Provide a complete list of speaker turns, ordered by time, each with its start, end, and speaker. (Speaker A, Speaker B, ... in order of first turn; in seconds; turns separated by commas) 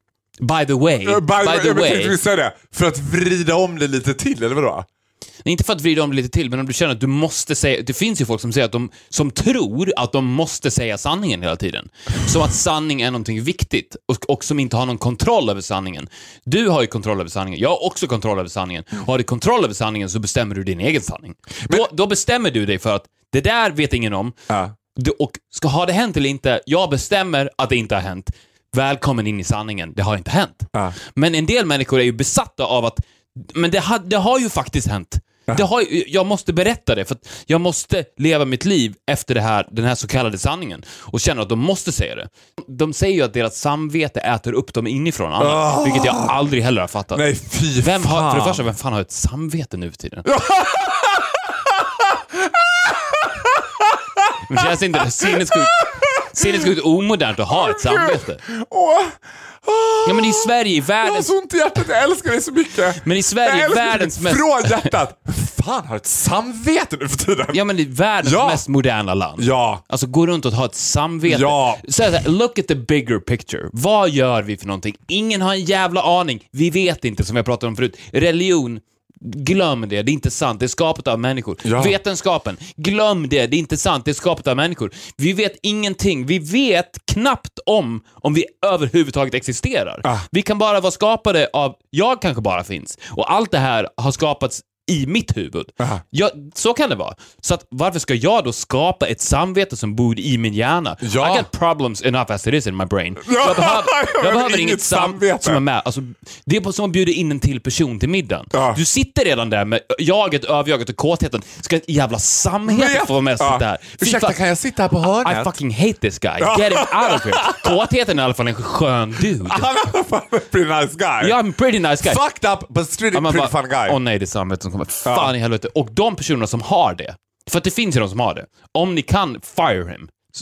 Speaker A: 0.4-2.2, Speaker B: 1.0-4.9, Speaker A: 5.4-24.4, Speaker B: 24.5-24.7, Speaker A: 24.9-47.3, Speaker B: 45.4-46.4, Speaker B: 47.1-48.6, Speaker A: 47.8-50.3, Speaker B: 50.2-56.7, Speaker A: 54.5-58.4, Speaker B: 57.5-60.5, Speaker A: 60.1-61.3, Speaker B: 61.0-67.6, Speaker A: 63.0-64.9, Speaker A: 67.5-114.4, Speaker B: 68.2-68.6, Speaker B: 69.4-69.8, Speaker B: 71.2-71.8, Speaker B: 81.6-82.0, Speaker B: 101.0-101.5, Speaker B: 103.2-105.6, Speaker B: 108.5-108.8, Speaker B: 112.7-115.5, Speaker A: 115.2-119.7, Speaker B: 116.4-117.8, Speaker B: 119.4-121.4, Speaker A: 121.2-122.2, Speaker B: 122.0-124.0, Speaker A: 123.1-130.1, Speaker B: 125.1-125.3